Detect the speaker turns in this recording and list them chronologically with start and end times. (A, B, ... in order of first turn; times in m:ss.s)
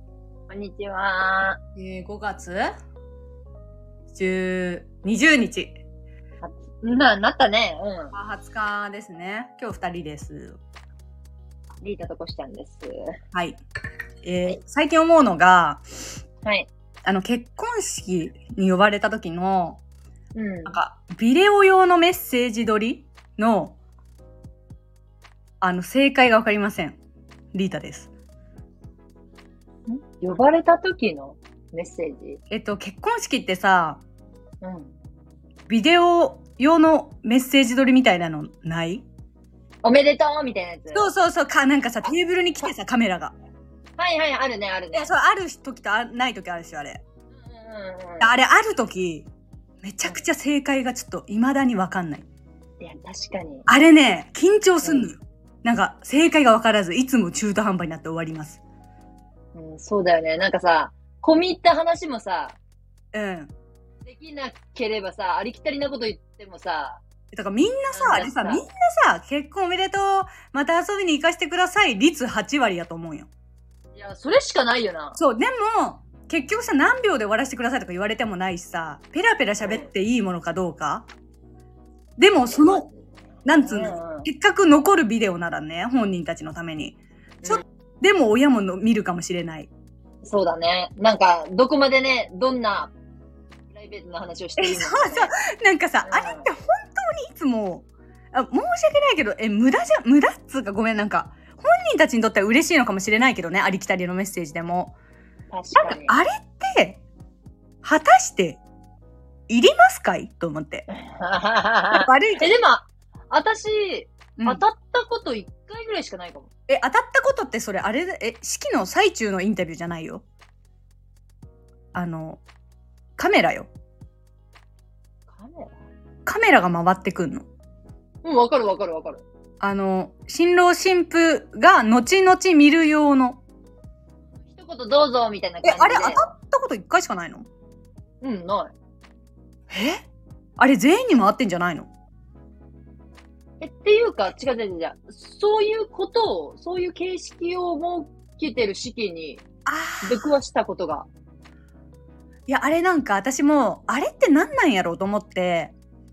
0:00.5-0:01.6 A
0:01.8-0:02.7 B
0:04.1-0:05.8 B
0:06.4-0:08.1 A
0:08.1-0:10.6 B
0:11.8-0:12.9 A
0:13.3-0:13.6 B
0:14.2-0:15.8 B
0:17.0-0:19.8 B
0:20.4-0:20.8 A
0:20.7-0:23.8 B
0:25.6-0:27.0 B
0:27.5-0:28.1 B
0:29.9-0:32.4 A
0:32.5-0:34.0 B
0:34.6-0:34.9 A
0:35.7-0:39.1 B
0:39.8-0:41.1 A
0:40.9-0:43.4 B
0:44.0-0:45.1 A
0:44.9-0:47.0 B
0:47.5-0:48.3 A
0:48.2-0:49.3 B
0:49.8-0:52.3 B
0:52.8-0:53.7 A
0:53.7-0:58.6 B
0:54.8-0:55.1 A
0:59.5-1:02.6 A
1:03.1-1:03.5 B
1:04.0-1:07.0 A
1:07.3-1:13.3 B
1:07.9-1:08.7 A
1:14.0-1:15.2 A
1:15.2-1:21.1 B
1:22.2-1:22.9 B
1:22.5-1:23.0 A
1:23.4-1:29.7 B
1:23.5-1:24.3 A
1:30.2-1:32.9 A
1:33.7-1:35.3 A
1:34.6-1:45.0 B
1:36.0-1:36.5 A
1:45.5-1:46.2 A
1:45.8-1:47.0 B
1:47.8-1:48.6 B
1:49.5-1:50.9 B
1:50.9-1:56.5 A
1:51.9-1:52.6 B
1:56.7-2:00.2 B
2:01.9-2:02.4 B
2:03.2-2:03.7 B
2:05.3-2:05.9 A
2:06.3-2:07.5 B
2:08.2-2:09.2 A
2:09.6-2:13.4 B
2:14.6-2:16.3 A
2:15.6-2:17.5 B
2:18.2-2:18.7 A
2:19.7-2:20.0 B
2:20.6-2:21.9 B
2:23.6-2:29.4 A
2:29.7-2:30.2 B
2:30.0-2:31.1 A
2:32.5-2:35.7 B